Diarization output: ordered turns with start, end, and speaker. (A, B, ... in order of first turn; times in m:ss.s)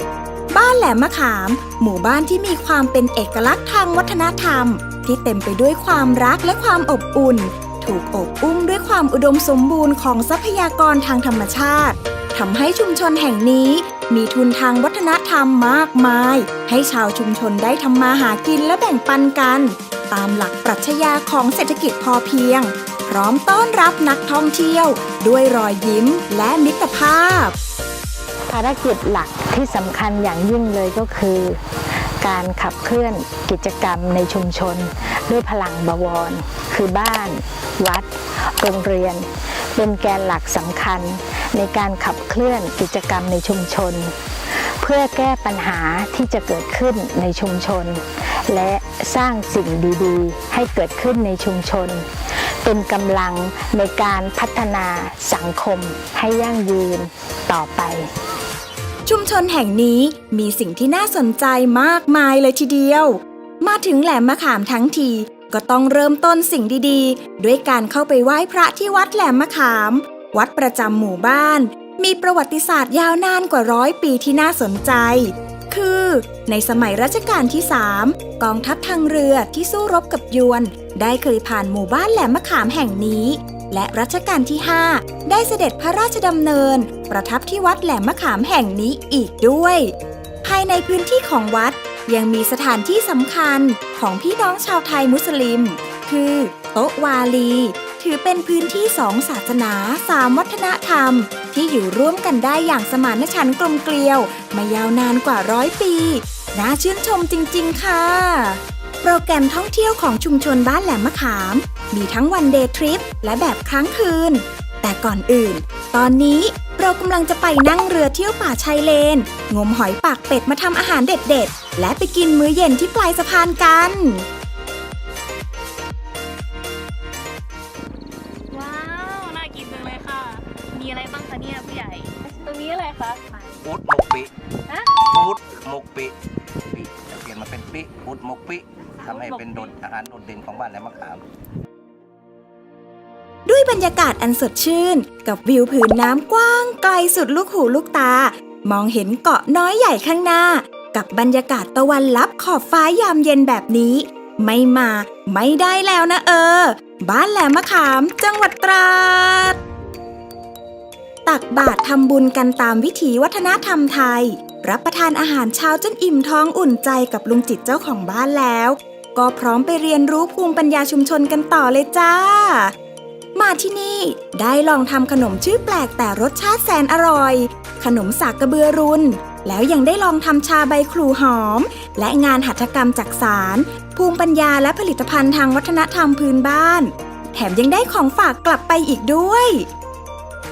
0:00.5-0:27.5 A
0:28.5-0:31.6 B
0:32.2-0:52.0 B
0:52.6-0:58.1 B
0:59.0-1:29.9 A
1:30.4-2:04.2 A
2:08.5-2:13.6 C
2:13.6-2:14.3 D
2:14.7-2:15.0 C
2:15.0-2:16.1 D
2:16.7-2:21.2 D
2:19.0-2:19.7 C
2:23.4-2:39.6 A
2:41.2-2:52.7 A
2:53.3-3:09.7 A